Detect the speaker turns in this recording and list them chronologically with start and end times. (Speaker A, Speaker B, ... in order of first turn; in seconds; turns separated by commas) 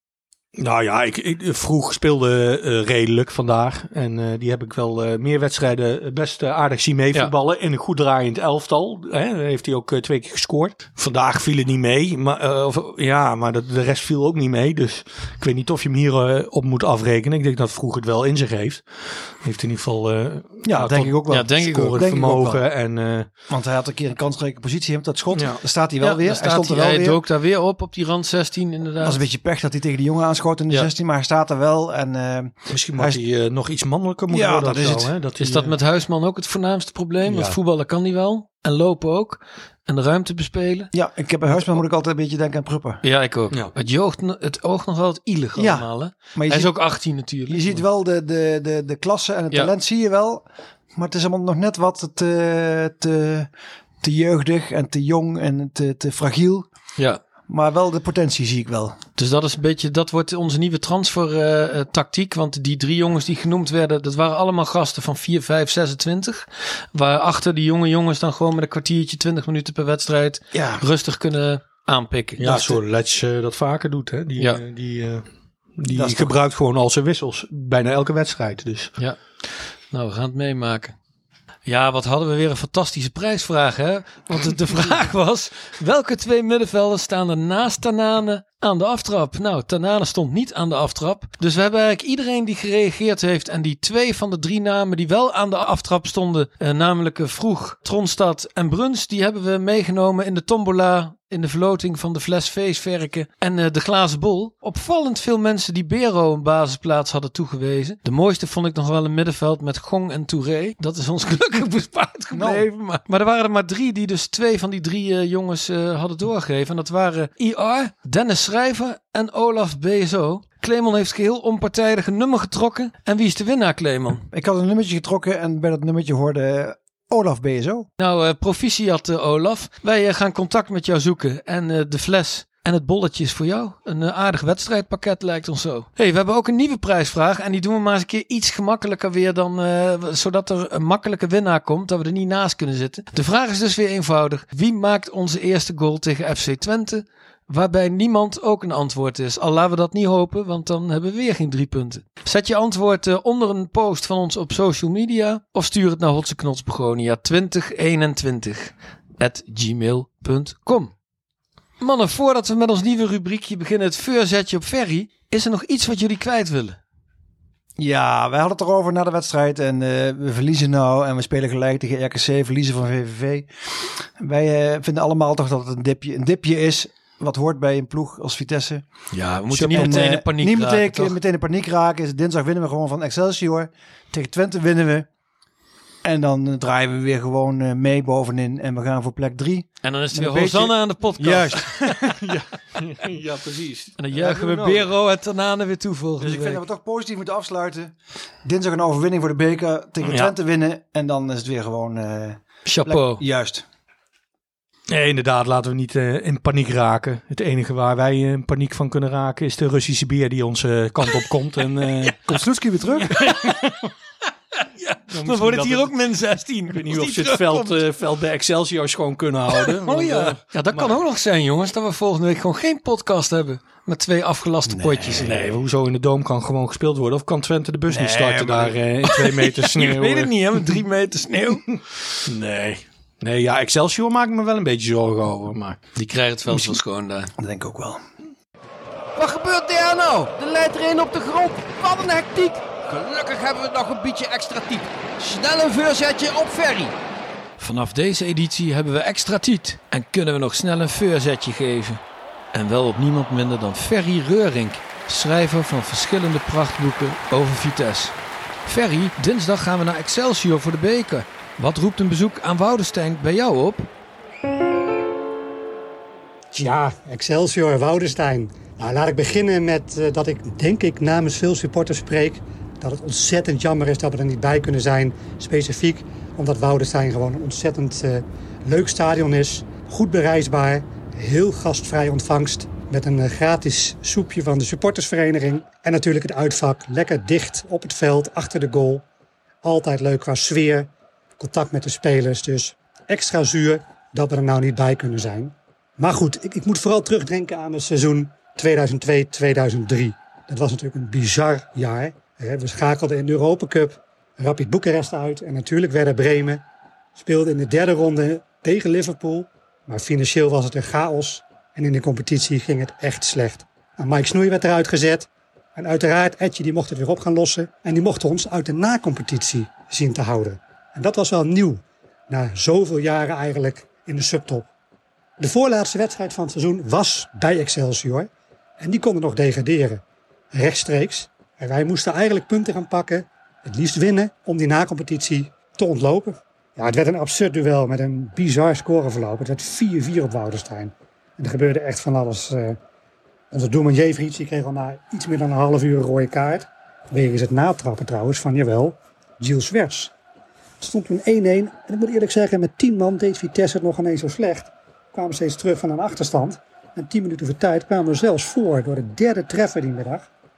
Speaker A: 0.6-23.3, Speaker B: 20.6-22.6, Speaker C: 21.3-22.0, Speaker B: 23.5-27.2, Speaker A: 25.3-25.6, Speaker C: 26.0-29.2, Speaker B: 29.0-33.2, Speaker A: 32.7-35.8, Speaker B: 34.3-35.1, Speaker C: 35.4-40.9, Speaker A: 37.2-37.6, Speaker B: 40.9-43.0, Speaker C: 43.0-47.8, Speaker B: 45.6-46.7, Speaker B: 47.5-53.5, Speaker B: 54.0-56.7, Speaker B: 57.5-59.0, Speaker C: 59.2-72.8, Speaker B: 70.5-70.8, Speaker A: 72.4-75.3, Speaker A: 75.8-78.9, Speaker B: 75.9-76.4, Speaker C: 79.9-81.0, Speaker C: 81.7-124.2, Speaker B: 112.3-112.7, Speaker B: 124.3-127.9, Speaker C: 128.0-160.9, Speaker C: 161.8-166.8, Speaker B: 167.8-173.5, Speaker B: 174.2-178.8, Speaker C: 179.1-181.2, Speaker B: 179.5-185.1, Speaker B: 186.0-192.3, Speaker C: 189.8-191.7, Speaker A: 191.9-194.9, Speaker C: 194.0-196.6, Speaker B: 196.2-203.7, Speaker A: 200.0-200.3, Speaker C: 202.7-203.2, Speaker A: 204.9-212.3, Speaker B: 212.3-213.2, Speaker A: 213.1-213.9, Speaker C: 213.1-213.7, Speaker C: 214.6-217.8, Speaker A: 215.1-215.9, Speaker A: 216.7-220.9, Speaker C: 219.5-225.4, Speaker B: 224.7-225.5, Speaker A: 225.2-230.7, Speaker B: 227.9-228.7, Speaker C: 229.0-231.7, Speaker A: 231.7-235.8, Speaker C: 236.0-237.3, Speaker B: 236.5-236.8, Speaker B: 237.4-238.0, Speaker D: 239.2-246.9, Speaker C: 247.6-252.0, Speaker C: 252.5-258.1, Speaker C: 258.7-263.9, Speaker E: 266.5-289.1, Speaker E: 289.6-306.6, Speaker E: 307.1-324.7, Speaker E: 325.4-342.8, Speaker E: 343.5-350.1, Speaker E: 350.8-360.3